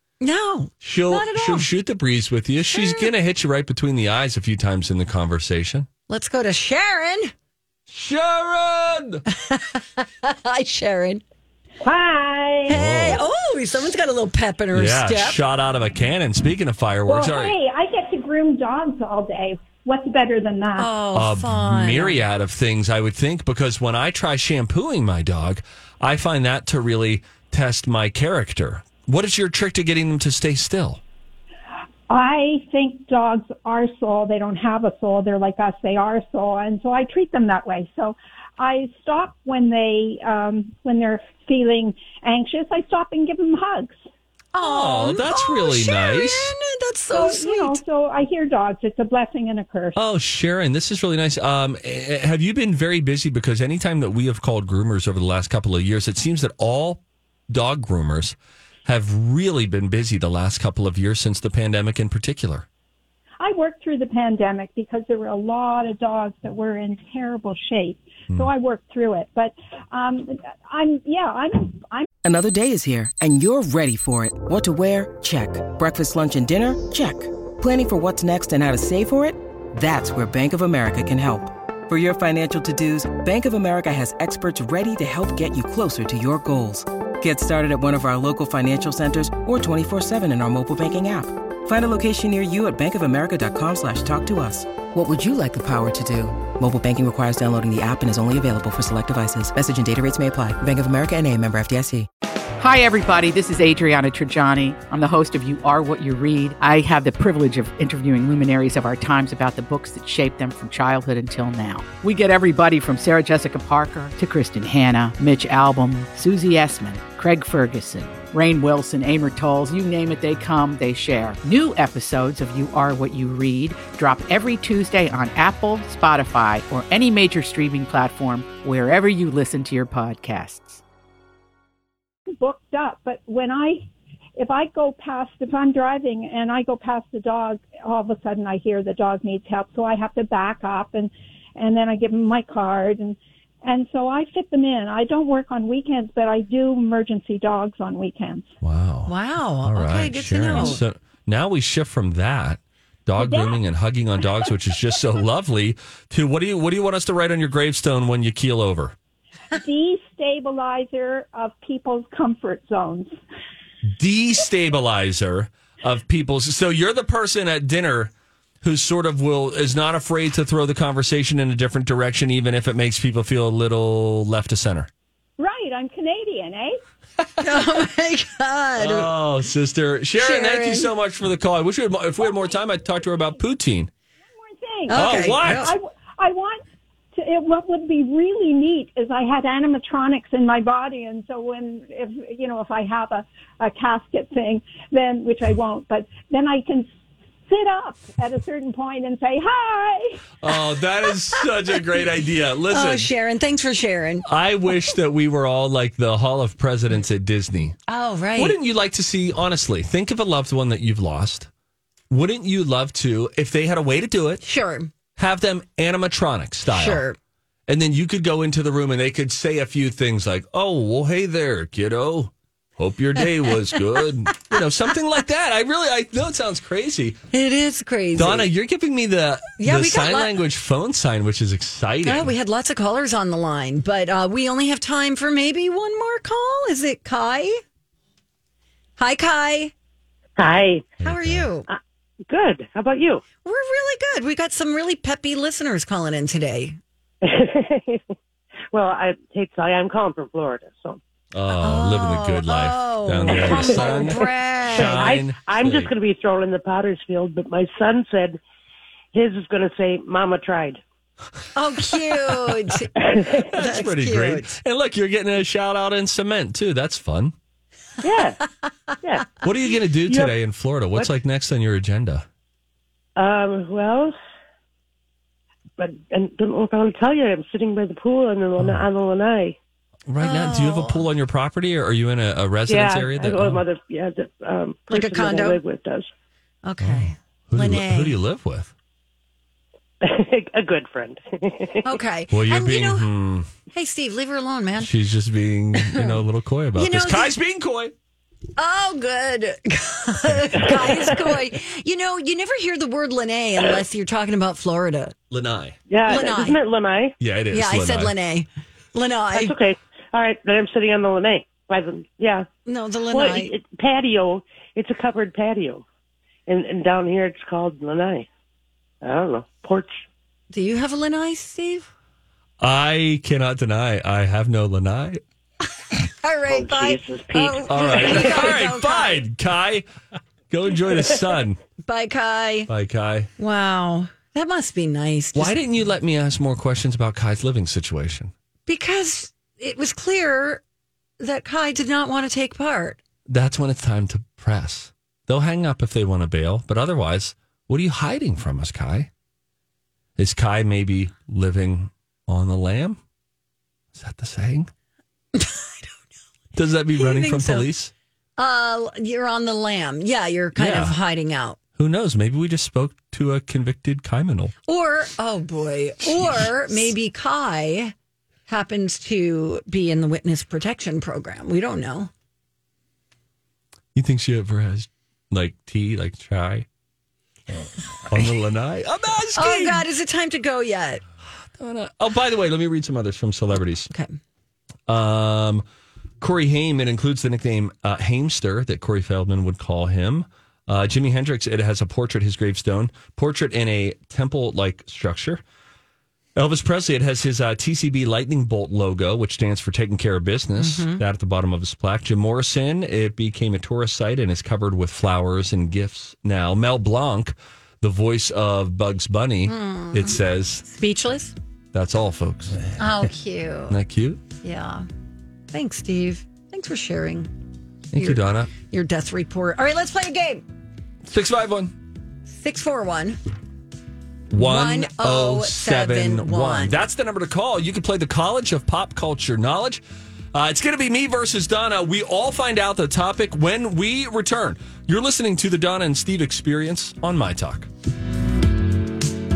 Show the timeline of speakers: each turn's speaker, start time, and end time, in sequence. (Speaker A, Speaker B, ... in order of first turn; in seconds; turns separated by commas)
Speaker A: 0.2-1.7, Speaker B: 0.8-5.9, Speaker A: 2.7-3.1, Speaker A: 6.1-7.3, Speaker B: 7.9-9.2, Speaker A: 9.3-11.2, Speaker C: 11.8-12.7, Speaker B: 12.7-13.2, Speaker A: 12.7-15.4, Speaker B: 14.7-17.6, Speaker C: 17.1-20.9, Speaker A: 20.8-22.2, Speaker B: 21.1-31.0, Speaker C: 32.1-44.0, Speaker A: 44.5-47.8, Speaker B: 44.6-46.5, Speaker C: 47.1-50.0, Speaker B: 50.0-62.7, Speaker C: 63.4-72.1, Speaker D: 72.2-102.1, Speaker E: 102.6-130.8, Speaker C: 132.4-148.5, Speaker B: 148.6-149.1, Speaker A: 149.1-150.8, Speaker B: 149.7-158.9, Speaker C: 153.2-153.6, Speaker C: 159.5-163.2, Speaker B: 163.9-174.9, Speaker C: 175.4-176.8, Speaker A: 177.4-179.1, Speaker B: 178.8-183.9, Speaker A: 180.2-180.9, Speaker C: 184.5-186.6, Speaker A: 184.9-185.7, Speaker B: 184.9-185.8, Speaker C: 187.1-196.9, Speaker C: 197.5-200.3, Speaker B: 200.4-203.1, Speaker A: 202.7-204.2, Speaker B: 204.2-207.8, Speaker A: 207.9-208.6, Speaker B: 208.4-211.5, Speaker B: 212.1-214.4, Speaker A: 214.4-214.9, Speaker B: 215.2-217.0, Speaker A: 216.7-217.2, Speaker B: 217.7-227.2, Speaker A: 227.3-228.5, Speaker B: 228.2-232.3, Speaker A: 229.6-230.3, Speaker A: 232.0-237.6, Speaker A: 239.0-239.7, Speaker F: 240.4-241.0, Speaker B: 241.0-241.5, Speaker A: 241.0-241.7, Speaker F: 242.3-243.2, Speaker A: 243.4-246.8, Speaker F: 247.2-248.0, Speaker F: 248.7-251.0, Speaker B: 251.3-255.9, Speaker A: 251.5-255.2, Speaker F: 253.3-258.4, Speaker F: 259.1-260.8, Speaker A: 261.6-264.5, Speaker F: 263.0-263.4, Speaker B: 263.3-267.4, Speaker F: 268.0-268.4, Speaker F: 269.0-269.3, Speaker B: 269.4-272.3, Speaker F: 270.1-270.4, Speaker F: 273.2-274.2, Speaker F: 275.8-279.6, Speaker B: 278.6-278.8, Speaker B: 280.1-283.6, Speaker A: 280.2-281.1, Speaker F: 282.7-286.1, Speaker A: 284.9-285.6, Speaker A: 286.6-288.2, Speaker B: 286.8-288.7, Speaker F: 290.0-292.0, Speaker A: 291.8-293.1, Speaker B: 292.3-293.5, Speaker A: 293.7-294.9, Speaker B: 294.8-297.9, Speaker A: 295.8-296.2, Speaker A: 296.8-297.4, Speaker A: 298.6-305.1, Speaker F: 300.6-301.2, Speaker B: 305.3-305.8, Speaker F: 305.9-307.1, Speaker A: 306.1-306.6, Speaker B: 307.2-308.1, Speaker A: 307.5-309.6, Speaker F: 309.3-312.5, Speaker A: 312.7-313.5, Speaker F: 313.1-315.9, Speaker F: 316.5-318.3, Speaker F: 319.0-319.9, Speaker A: 320.5-321.9, Speaker B: 322.6-325.2, Speaker A: 326.2-329.2, Speaker F: 326.5-328.4, Speaker B: 327.7-329.9, Speaker B: 330.5-331.6, Speaker A: 331.8-332.7, Speaker B: 332.7-333.3, Speaker A: 333.4-335.6, Speaker B: 335.3-338.3, Speaker A: 338.7-340.6, Speaker A: 341.2-343.0, Speaker B: 343.3-349.1, Speaker B: 350.2-353.0, Speaker B: 353.9-354.7, Speaker A: 355.4-355.7, Speaker B: 356.6-357.9, Speaker A: 356.9-357.7, Speaker A: 358.4-361.6, Speaker B: 360.6-361.0, Speaker B: 361.8-364.5, Speaker A: 364.7-367.9, Speaker B: 366.1-366.6, Speaker A: 368.5-372.1, Speaker B: 373.9-376.7, Speaker B: 378.1-379.9, Speaker A: 379.4-381.0, Speaker B: 381.6-383.9, Speaker A: 383.9-384.1, Speaker B: 384.9-385.6, Speaker B: 386.2-395.4, Speaker B: 396.4-410.6, Speaker A: 400.6-401.0, Speaker A: 409.5-411.3, Speaker B: 411.7-412.6, Speaker A: 412.8-413.8, Speaker B: 413.7-414.2, Speaker A: 414.4-414.9, Speaker A: 415.5-417.3, Speaker B: 417.9-418.5, Speaker A: 417.9-420.4, Speaker B: 421.0-421.7, Speaker A: 422.3-423.2, Speaker B: 424.3-429.8, Speaker A: 424.3-426.8, Speaker B: 430.3-437.7